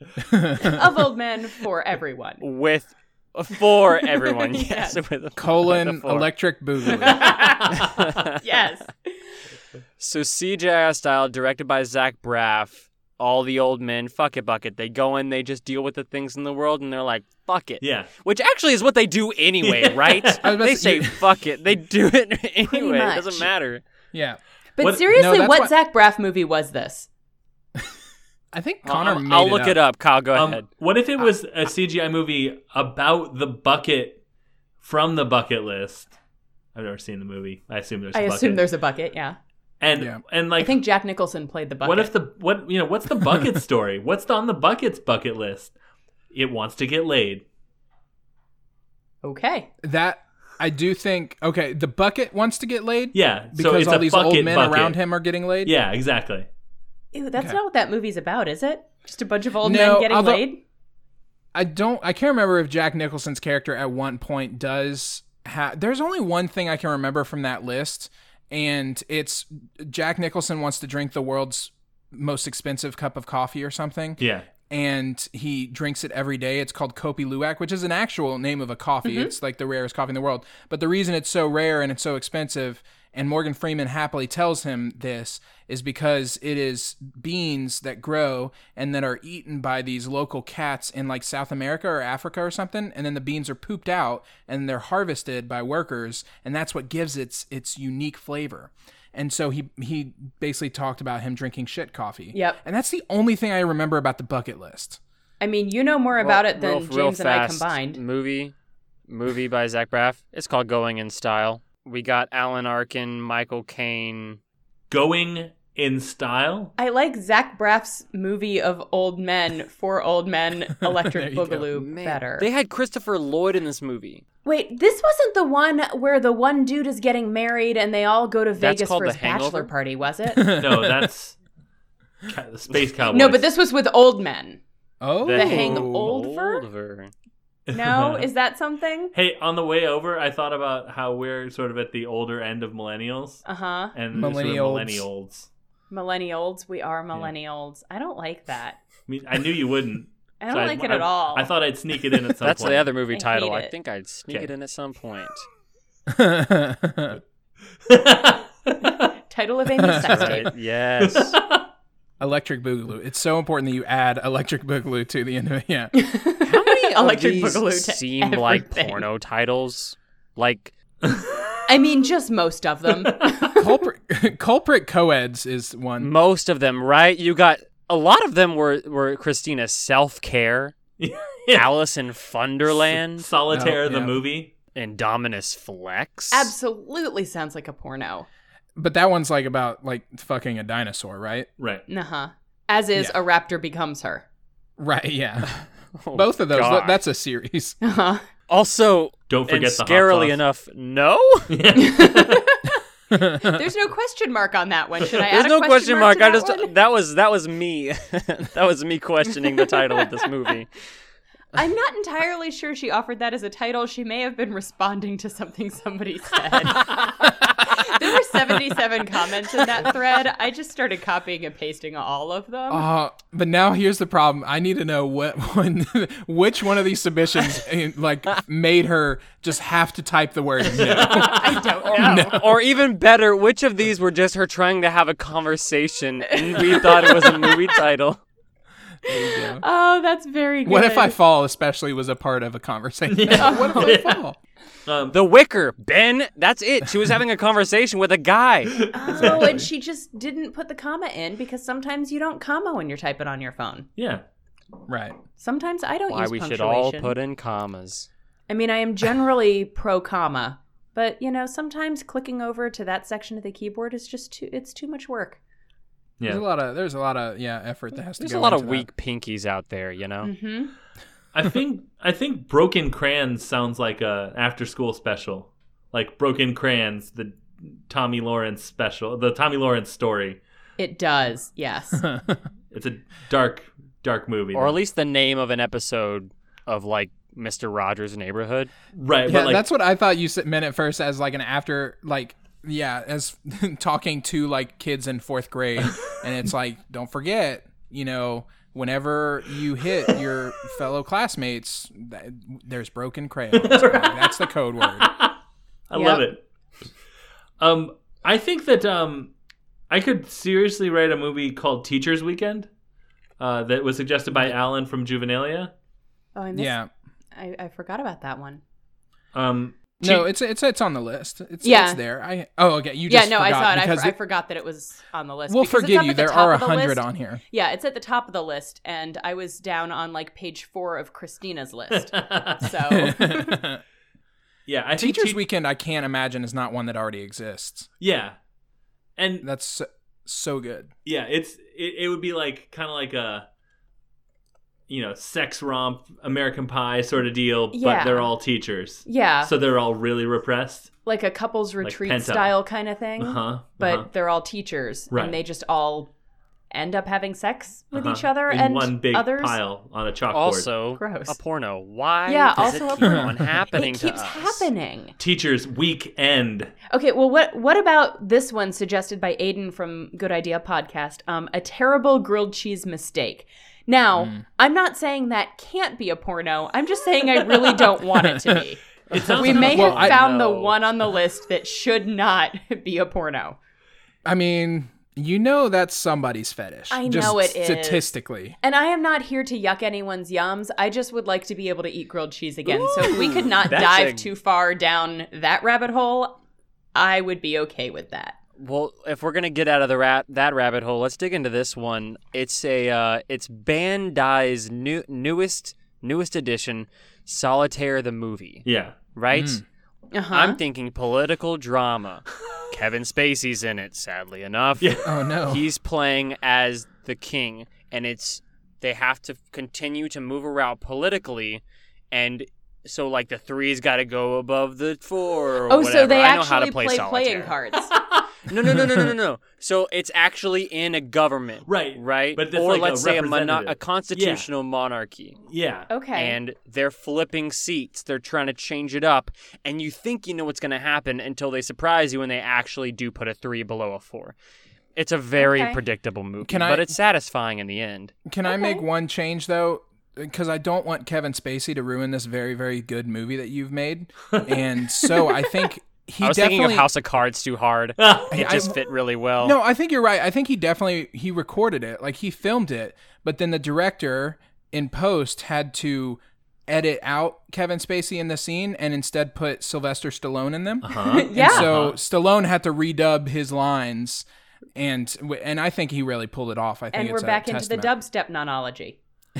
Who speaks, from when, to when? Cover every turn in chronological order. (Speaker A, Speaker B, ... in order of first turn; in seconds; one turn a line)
Speaker A: 0.2-0.8
Speaker B: 0.6-2.4
Speaker C: 2.4-6.3
Speaker B: 3.7-5.0
Speaker A: 5.3-7.4
Speaker B: 6.9-7.8
Speaker C: 6.9-8.4
Speaker B: 8.4-9.2
Speaker C: 10.0-23.8
Speaker D: 17.8-18.1
Speaker D: 19.6-20.4
Speaker A: 20.4-21.2
Speaker B: 22.6-23.5
Speaker A: 24.1-24.4
Speaker B: 24.8-27.1
Speaker A: 25.1-25.7
Speaker A: 28.5-29.8
Speaker C: 28.8-30.6
Speaker D: 30.3-34.2
Speaker D: 34.8-36.1
Speaker D: 36.7-38.6
Speaker B: 38.1-39.4
Speaker D: 39.8-40.8
Speaker A: 39.9-40.2
Speaker B: 40.6-42.1
Speaker D: 41.8-45.7
Speaker D: 46.3-47.4
Speaker B: 49.2-49.7
Speaker A: 49.8-55.7
Speaker D: 53.1-55.0
Speaker D: 55.6-56.5
Speaker B: 57.1-60.6
Speaker A: 59.6-60.4
Speaker A: 61.5-105.0
Speaker D: 74.2-74.5
Speaker B: 79.0-79.3
Speaker B: 102.3-102.6
Speaker B: 105.4-108.0
Speaker C: 106.2-108.5
Speaker C: 109.1-114.4
Speaker D: 114.9-116.7
Speaker B: 116.8-122.5
Speaker A: 120.8-121.7
Speaker C: 121.7-124.2
Speaker B: 124.4-130.5
Speaker C: 128.6-129.7
Speaker A: 130.3-131.1
Speaker D: 130.5-131.3
Speaker D: 132.3-133.4
Speaker B: 133.1-134.6
Speaker A: 135.0-136.1
Speaker B: 135.2-136.6
Speaker C: 135.2-137.1
Speaker D: 137.7-138.3
Speaker B: 137.7-139.1
Speaker D: 139.1-143.4
Speaker B: 143.4-143.9
Speaker D: 143.9-145.5
Speaker A: 144.1-145.0
Speaker B: 145.9-148.8
Speaker D: 149.1-152.9
Speaker B: 150.4-151.5
Speaker C: 152.4-155.4
Speaker B: 153.1-153.7
Speaker A: 156.1-157.2
Speaker D: 157.9-159.1
Speaker B: 159.3-160.5
Speaker A: 159.8-160.4
Speaker C: 160.0-161.4
Speaker D: 161.0-161.6
Speaker A: 162.2-165.9
Speaker B: 165.9-169.0
Speaker C: 166.4-170.7
Speaker B: 171.7-173.7
Speaker A: 173.5-176.1
Speaker C: 176.0-180.8
Speaker D: 181.0-181.8
Speaker C: 181.5-183.3
Speaker D: 182.6-184.5
Speaker A: 183.5-184.2
Speaker C: 184.7-186.5
Speaker B: 186.3-188.3
Speaker A: 188.8-191.5
Speaker D: 191.6-191.8
Speaker B: 191.9-194.2
Speaker A: 194.8-195.6
Speaker C: 195.5-197.0
Speaker A: 196.1-197.8
Speaker B: 197.8-198.2
Speaker C: 198.5-201.7
Speaker D: 199.3-200.4
Speaker D: 201.5-202.4
Speaker B: 201.8-202.8
Speaker A: 203.1-203.6
Speaker B: 203.4-206.7
Speaker C: 205.2-210.7
Speaker B: 211.5-222.9
Speaker A: 222.7-232.4
Speaker D: 230.7-231.6
Speaker B: 230.9-232.4
Speaker C: 231.8-238.2
Speaker B: 236.3-237.7
Speaker A: 239.1-239.6
Speaker B: 239.1-241.1
Speaker A: 240.6-244.4
Speaker D: 243.1-244.2
Speaker B: 243.4-244.0
Speaker D: 244.8-245.2
Speaker C: 245.1-248.9
Speaker D: 248.8-249.6
Speaker B: 248.9-253.9
Speaker A: 249.2-249.7
Speaker D: 254.0-254.2
Speaker A: 254.9-255.2
Speaker B: 255.4-257.1
Speaker C: 256.1-258.1
Speaker B: 258.5-265.4
Speaker A: 266.2-268.9
Speaker C: 268.2-270.3
Speaker B: 270.2-270.7
Speaker D: 271.3-280.4
Speaker B: 280.8-282.0
Speaker A: 281.9-282.4
Speaker D: 282.7-284.8
Speaker C: 284.5-288.7
Speaker D: 288.9-289.6
Speaker A: 289.3-305.1
Speaker D: 303.5-305.3
Speaker D: 305.9-306.4
Speaker B: 305.9-306.3
Speaker D: 307.6-309.3
Speaker D: 309.9-312.7
Speaker D: 313.4-315.7
Speaker B: 316.4-316.8
Speaker A: 316.5-316.9
Speaker B: 317.3-318.6
Speaker D: 319.3-320.3
Speaker A: 320.0-324.2
Speaker B: 321.6-322.0
Speaker B: 323.1-333.6
Speaker A: 325.5-327.4
Speaker D: 331.9-332.6
Speaker A: 332.9-333.8
Speaker D: 334.6-335.4
Speaker A: 335.0-337.9
Speaker D: 338.0-338.4
Speaker D: 339.2-339.4
Speaker A: 339.4-340.9
Speaker D: 341.0-343.4
Speaker D: 344.9-350.9
Speaker B: 347.7-348.3
Speaker B: 349.1-349.5
Speaker B: 351.1-356.1
Speaker D: 351.8-352.5
Speaker D: 353.2-354.1
Speaker D: 355.1-355.4
Speaker B: 356.7-359.6
Speaker D: 357.9-360.7
Speaker C: 360.3-364.7
Speaker B: 360.9-361.4
Speaker B: 362.2-365.1
Speaker A: 363.0-363.5
Speaker D: 365.2-366.7
Speaker B: 366.9-378.8
Speaker A: 374.2-374.4
Speaker A: 378.3-378.6
Speaker C: 379.1-380.1
Speaker D: 379.1-380.8
Speaker B: 379.3-383.6
Speaker A: 379.4-380.2
Speaker A: 384.2-388.6
Speaker B: 386.9-388.1
Speaker B: 388.6-396.4
Speaker C: 392.6-394.3
Speaker B: 396.9-398.4
Speaker C: 398.6-408.6
Speaker D: 408.6-408.9
Speaker C: 409.1-409.6
Speaker A: 409.3-409.6
Speaker B: 410.1-410.6
Speaker C: 410.3-427.5
Speaker D: 414.8-415.1
Speaker A: 415.0-415.7
Speaker B: 425.7-427.9
Speaker C: 428.4-435.4
Speaker D: 431.6-434.5
Speaker D: 435.5-435.9
Speaker B: 435.9-436.4
Speaker C: 436.1-444.4
Speaker C: 444.9-448.1
Speaker B: 445.4-445.8
Speaker A: 446.4-447.0
Speaker A: 448.2-456.9
Speaker B: 448.5-448.8
Speaker B: 455.0-455.6
Speaker C: 456.2-459.6
Speaker D: 458.0-458.4
Speaker A: 458.3-458.8
Speaker A: 459.4-477.9
Speaker D: 470.8-472.0
Speaker B: 471.0-471.7
Speaker B: 476.9-479.0